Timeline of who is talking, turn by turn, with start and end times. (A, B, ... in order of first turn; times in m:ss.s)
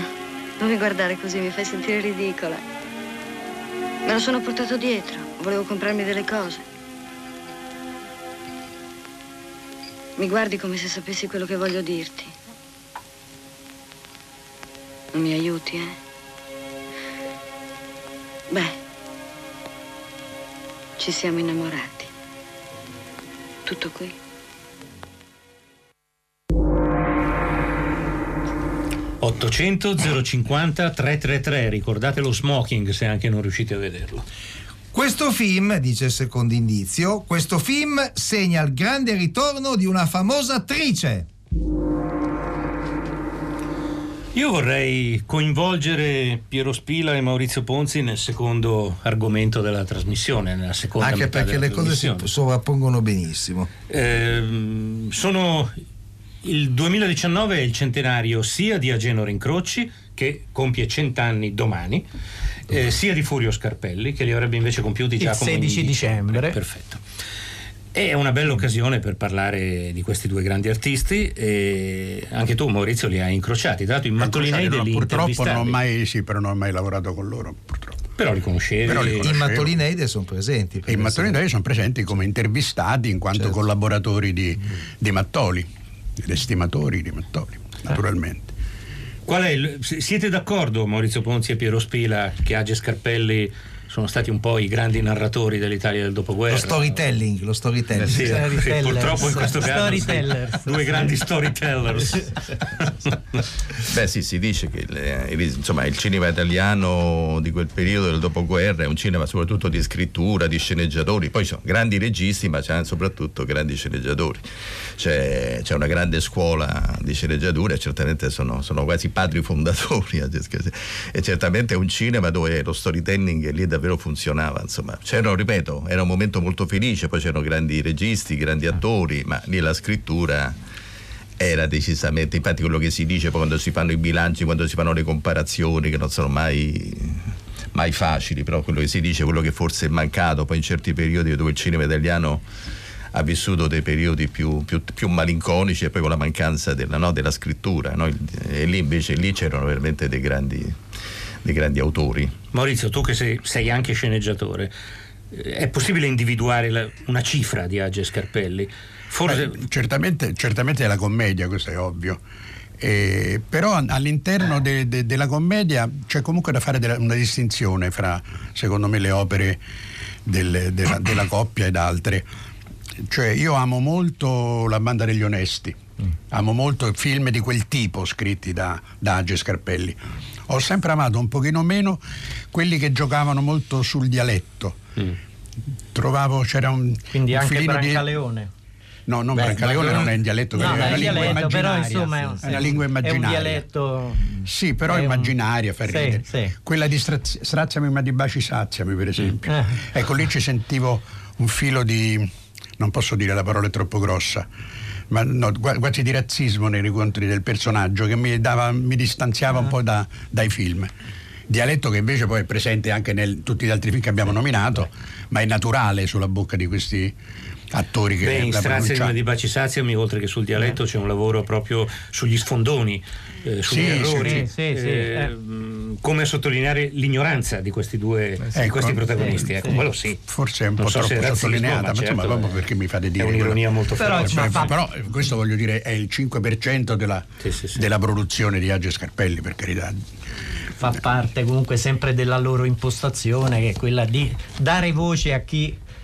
0:00.6-0:02.6 A
0:04.0-0:06.6 A
0:10.2-0:12.3 A
0:15.1-0:16.0 A
0:18.5-0:18.8 A
0:21.0-0:22.1 A
0:23.7-0:24.2 A
0:29.2-0:34.2 B
0:34.9-0:41.3 C
0:44.3-0:52.3 B
0:51.0-0:53.7 C
0:53.9-0:55.7 B
0:56.4-1:02.0 B
1:02.7-1:07.0 B
1:05.2-1:06.6 D
1:07.9-1:15.8 B
1:14.2-1:18.0 E
1:18.2-1:19.3 B
1:18.9-1:19.7 E
1:19.2-1:21.4 C
1:20.9-1:25.7 E
1:26.2-1:28.5 E
1:29.3-1:36.9 B
1:36.5-1:38.4 C
1:38.1-1:42.9 B
1:38.1-1:41.0 D
1:43.9-1:54.5 F
1:55.0-2:10.6 F
2:11.4-2:22.4 F
2:23.1-2:30.8 F
2:31.4-2:32.3 F
2:32.5-2:34.7 B
2:35.3-2:39.6 B
2:39.3-2:42.2 E
2:42.8-2:49.6 E
2:50.3-2:52.3 E
2:53.1-2:55.8 E
2:56.3-3:02.0 E
3:02.5-3:04.8 E
3:05.9-3:08.1 E
3:07.1-3:08.5 D
3:09.1-3:13.6 E
3:09.4-3:10.1 C
3:10.6-3:15.3 D
3:10.7-3:11.2 C
3:14.4-3:24.5 E
3:15.8-3:16.5 D
3:19.5-3:19.8 D
3:25.1-3:30.9 E
3:31.5-3:37.2 E
3:37.7-3:39.2 E
3:38.2-3:50.2 B
3:43.7-3:44.5 E
3:44.2-3:45.3 D
3:48.6-4:00.0 E
3:50.8-3:52.6 B
3:53.2-3:54.7 B
3:54.0-3:54.7 D
3:57.4-3:57.8 B
4:00.8-4:05.8 D